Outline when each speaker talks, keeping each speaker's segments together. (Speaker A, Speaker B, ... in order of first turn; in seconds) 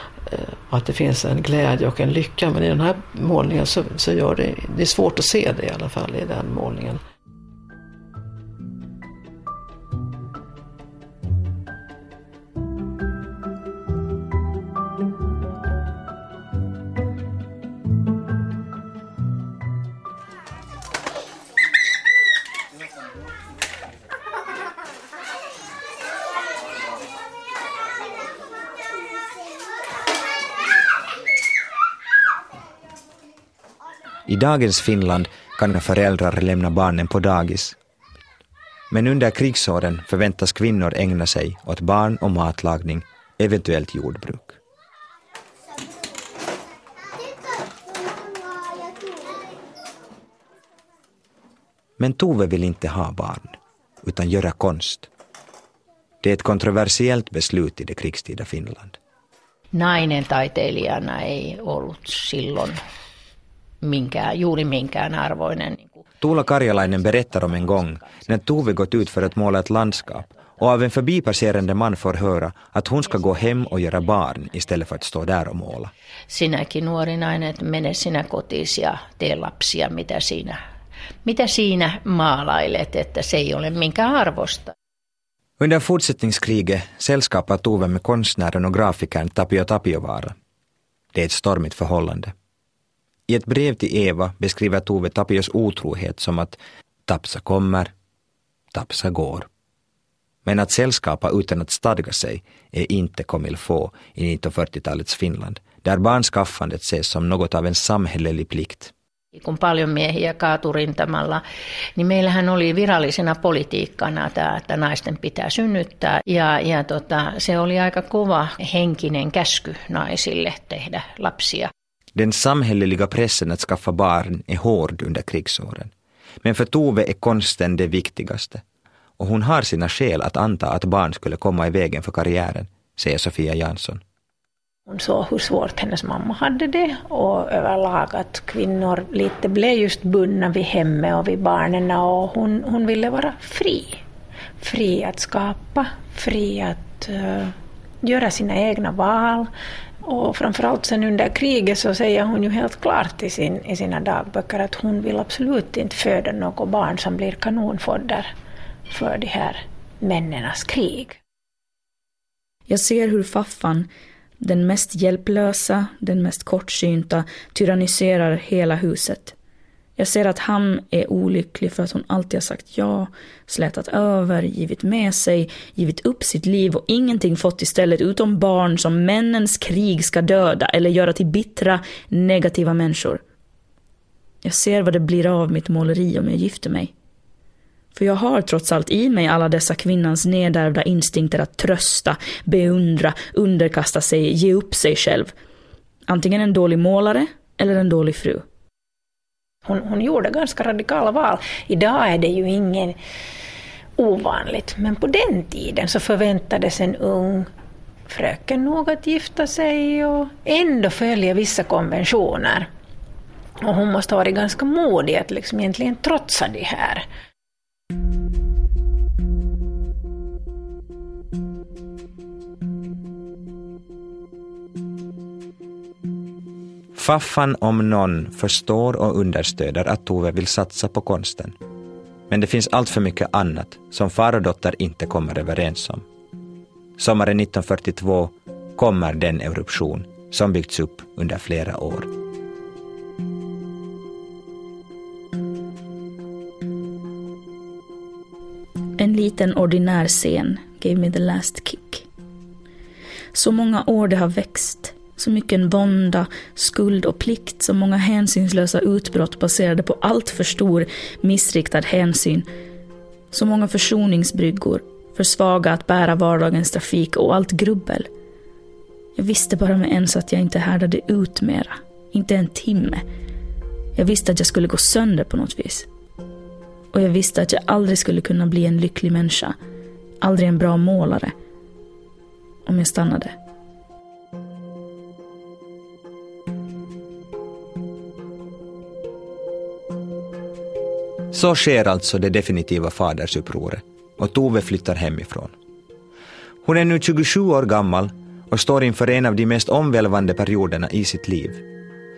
Speaker A: 0.3-7.0
Speaker B: 34.3-37.8, 38.9-44.6, 52.0-55.1, 56.2-59.0, 66.2-75.9, 85.6-90.3, 91.1-92.3, 93.3-97.9, 98.7-99.5, 100.5-108.9, 122.2-125.9, 126.4-128.6, 129.2-134.0, 226.9-231.6, 232.3-236.0, 237.0-242.1, 291.3-295.5, 296.6-301.6
Speaker C: 59.7-62.8, 63.8-66.0, 76.3-80.6, 81.2-84.7, 109.4-111.4, 112.0-121.7
Speaker D: 134.9-144.0, 144.6-149.5, 150.1-158.3, 158.9-161.2, 199.7-203.0, 204.0-207.5, 208.1-212.7, 213.6-217.1
Speaker E: 162.7-163.9, 164.4-169.3, 170.0-183.2, 184.4-186.9, 187.9-195.3, 196.1-198.4, 249.0-252.0, 253.3-262.5, 263.3-268.1, 269.2-273.0, 274.0-275.9, 276.9-279.6, 280.2-281.3, 282.7-283.4